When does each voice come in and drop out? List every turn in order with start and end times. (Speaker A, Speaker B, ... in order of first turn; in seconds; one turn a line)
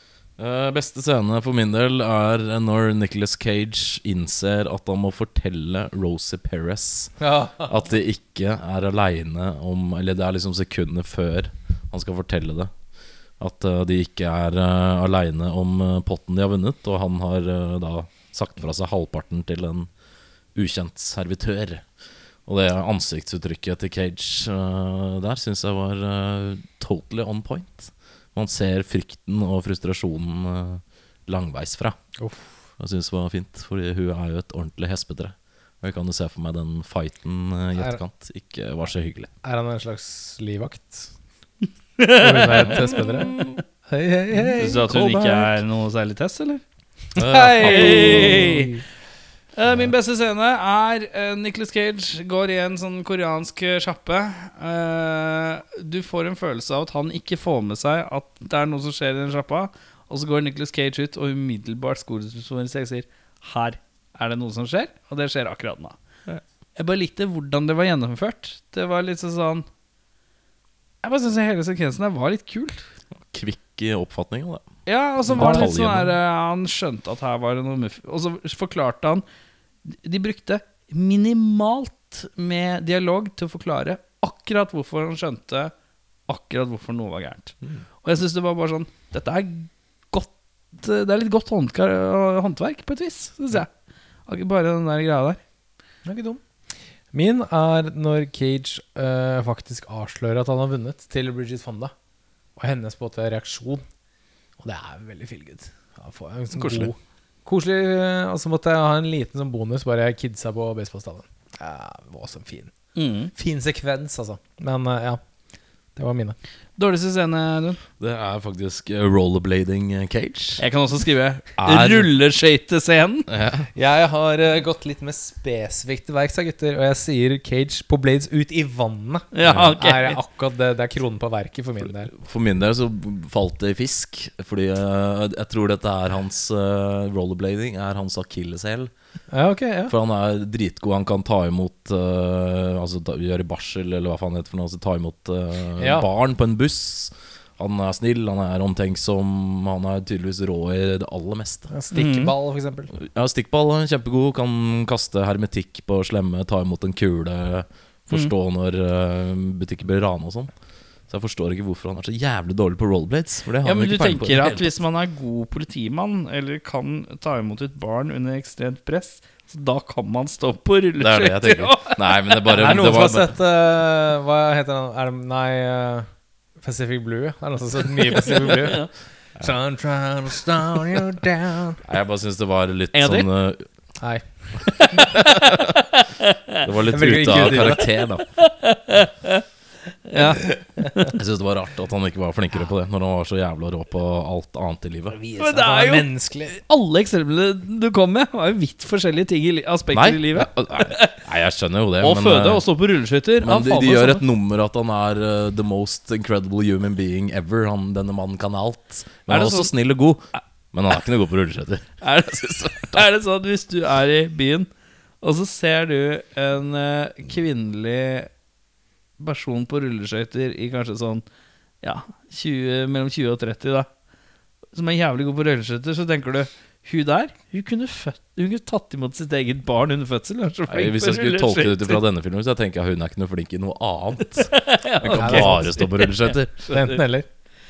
Speaker A: 0.4-12.7
Speaker B: 7.2-7.7
Speaker A: 13.4-19.9
Speaker A: 20.5-21.8
Speaker A: 22.4-32.0
Speaker B: 32.2-32.5
Speaker A: 32.8-39.3
Speaker B: 39.4-41.1
Speaker C: 42.0-42.9
Speaker B: 42.1-43.3
Speaker A: 42.6-43.6
Speaker B: 43.9-44.9
Speaker C: 44.6-46.6
Speaker A: 44.8-45.5
Speaker A: 47.1-48.7
Speaker B: 47.2-48.8
Speaker C: 47.3-48.7
Speaker C: 49.5-66.0
Speaker C: 66.8-69.7
Speaker C: 71.0-72.8
Speaker A: 73.2-74.7
Speaker C: 74.8-79.2
Speaker A: 75.3-76.2
Speaker B: 75.3-75.7
Speaker C: 79.8-85.7
Speaker C: 86.3-93.7
Speaker C: 94.3-95.4
Speaker B: 96.0-96.4
Speaker B: 97.1-101.9
Speaker B: 102.6-103.8
Speaker B: 104.6-112.7
Speaker A: 106.6-106.9
Speaker C: 113.0-113.3
Speaker B: 113.3-115.2
Speaker B: 116.0-116.4
Speaker C: 116.8-117.8
Speaker A: 118.0-120.6
Speaker C: 120.6-123.3
Speaker A: 121.6-122.1
Speaker A: 123.3-123.7
Speaker B: 123.7-132.1
Speaker C: 129.3-130.2
Speaker A: 129.4-129.8
Speaker A: 132.1-138.9
Speaker B: 139.3-139.9
Speaker A: 139.9-151.7
Speaker B: 145.8-146.1
Speaker B: 151.7-152.9
Speaker C: 151.9-152.3
Speaker A: 152.9-160.5
Speaker A: 161.1-164.8
Speaker C: 163.6-172.7
Speaker A: 171.0-173.3
Speaker B: 172.5-176.1
Speaker B: 176.6-178.9
Speaker C: 178.4-178.9
Speaker B: 179.4-181.8
Speaker A: 181.8-183.7
Speaker C: 182.9-183.3
Speaker B: 184.0-184.2
Speaker C: 184.8-186.7
Speaker A: 185.1-185.7
Speaker A: 186.6-188.3
Speaker B: 186.9-187.9
Speaker C: 188.4-189.4
Speaker C: 190.1-191.1
Speaker A: 191.1-195.2
Speaker B: 195.1-196.6
Speaker C: 195.4-201.2
Speaker A: 199.9-202.6
Speaker C: 202.0-204.2
Speaker A: 203.4-213.0
Speaker C: 209.3-209.7
Speaker C: 212.0-214.7
Speaker C: 215.2-218.3
Speaker C: 219.2-221.2
Speaker C: 221.8-223.9
Speaker C: 224.7-232.0
Speaker A: 230.7-236.5
Speaker C: 234.4-237.0
Speaker B: 235.1-235.7
Speaker B: 236.7-237.3